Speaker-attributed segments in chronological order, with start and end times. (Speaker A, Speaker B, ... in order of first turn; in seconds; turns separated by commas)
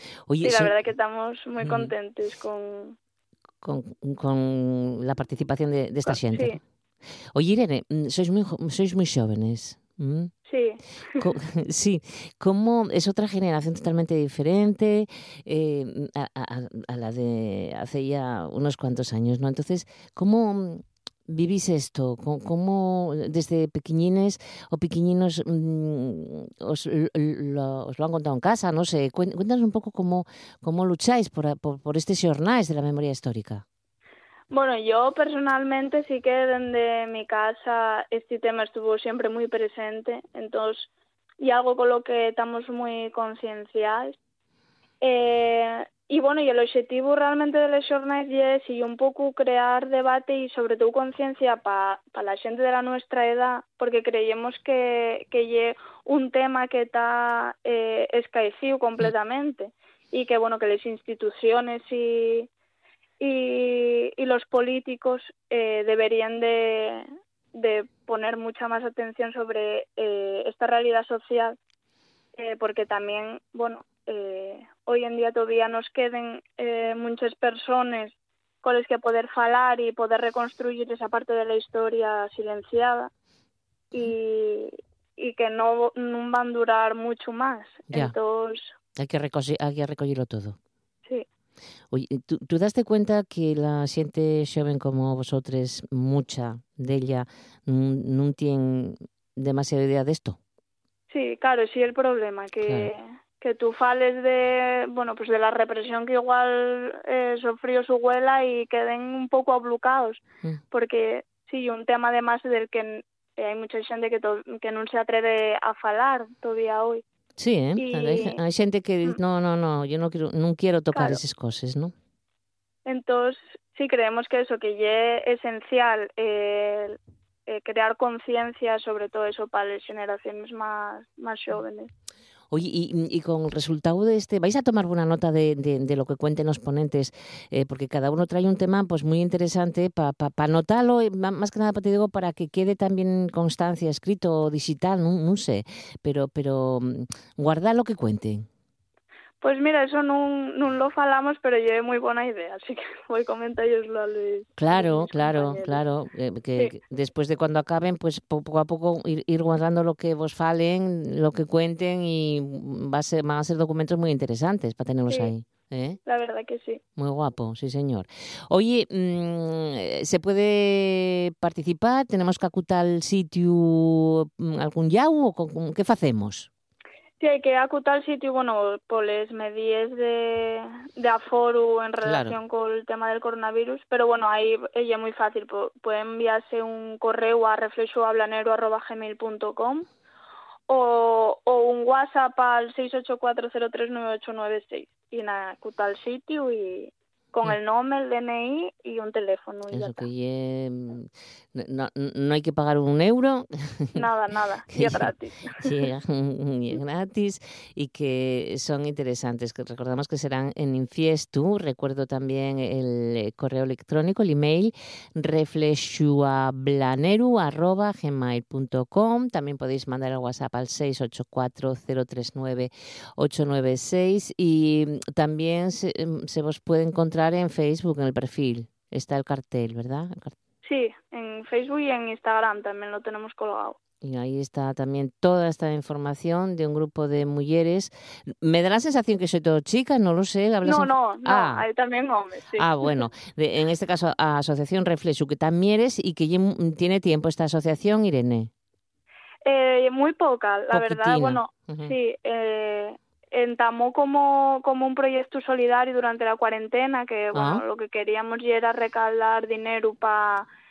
Speaker A: 0.3-0.7, Speaker B: 0.4-3.0, Speaker A: 1.6-1.9, Speaker A: 3.6-6.5, Speaker B: 6.1-6.6, Speaker A: 7.3-10.3, Speaker B: 10.5-11.3, Speaker A: 11.2-33.6, Speaker B: 34.5-44.2, Speaker B: 45.0-62.5, Speaker B: 63.2-71.6, Speaker B: 72.4-83.1, Speaker B: 83.9-88.7, Speaker A: 89.0-90.6, Speaker A: 91.9-100.4, Speaker B: 101.1-117.0, Speaker A: 102.6-102.9, Speaker A: 117.4-121.9, Speaker B: 117.8-118.4, Speaker B: 120.9-121.2, Speaker B: 122.9-131.9, Speaker A: 132.5-148.5, Speaker B: 149.4-155.8, Speaker A: 154.6-166.0, Speaker B: 166.1-166.8, Speaker A: 167.0-176.5, Speaker B: 177.2-189.9, Speaker A: 182.0-182.4, Speaker B: 190.7-200.1, Speaker A: 199.7-204.0, Speaker B: 203.9-205.8, Speaker A: 204.7-230.4, Speaker B: 230.6-233.8, Speaker A: 234.0-241.7, Speaker B: 240.7-242.9, Speaker A: 242.6-248.5, Speaker B: 249.4-260.5, Speaker A: 250.7-251.9, Speaker A: 257.3-257.6